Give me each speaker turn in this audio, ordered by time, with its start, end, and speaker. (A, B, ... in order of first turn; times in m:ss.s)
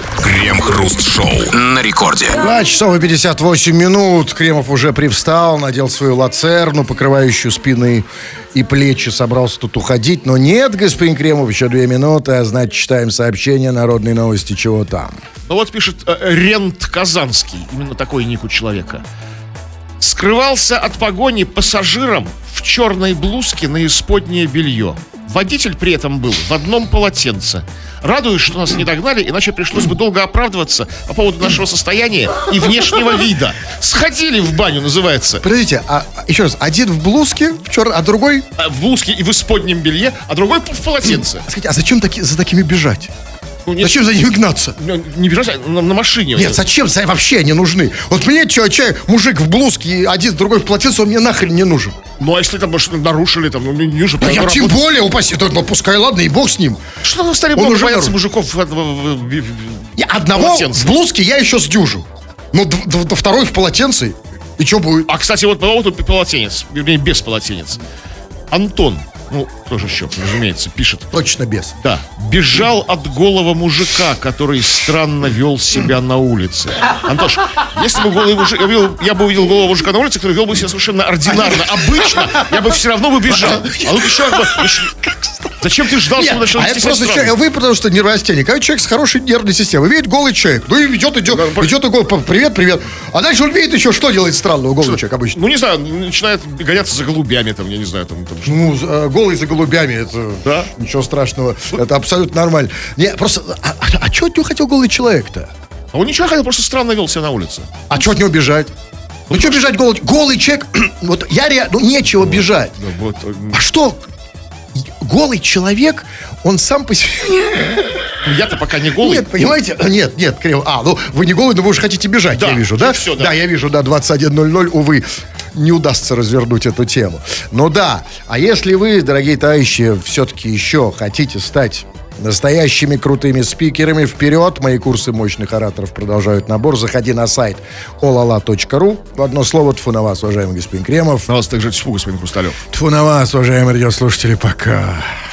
0:00.2-0:02.4 A
0:02.4-0:15.2 B
0:15.4-0:19.0 C
0:20.0-0:35.4 C
0:35.4-0:38.4 B
0:38.6-0:41.4 C
0:41.4-0:43.1 B
0:43.7-0:43.9 C
0:43.8-0:44.8 B
0:44.8-0:46.6 C
0:46.3-0:52.0 B
0:52.2-0:54.8 C
0:54.2-0:56.8 B
0:57.0-1:01.0 C
0:57.5-0:58.2 B
1:00.0-1:05.1 B
1:05.1-1:07.8 C
1:08.5-1:11.1 C
1:11.1-1:11.7 B
1:11.8-1:25.0 C
1:21.3-1:22.6 B
1:23.3-1:35.4 B
1:25.6-1:27.3 C
1:31.3-1:31.7 C
1:34.8-1:38.6 C
1:38.4-1:45.5 B
1:40.4-1:40.7 C
1:45.9-1:47.8 C
1:47.9-1:48.7 B
1:49.3-1:49.6 C
1:49.3-1:52.8 B
1:52.2-1:53.6 C
1:53.5-1:54.0 B
1:54.7-1:58.1 B
1:58.2-1:59.3 C
1:59.0-2:21.3 B
2:02.3-2:03.3 C
2:21.3-2:22.6 C
2:22.7-2:25.1 B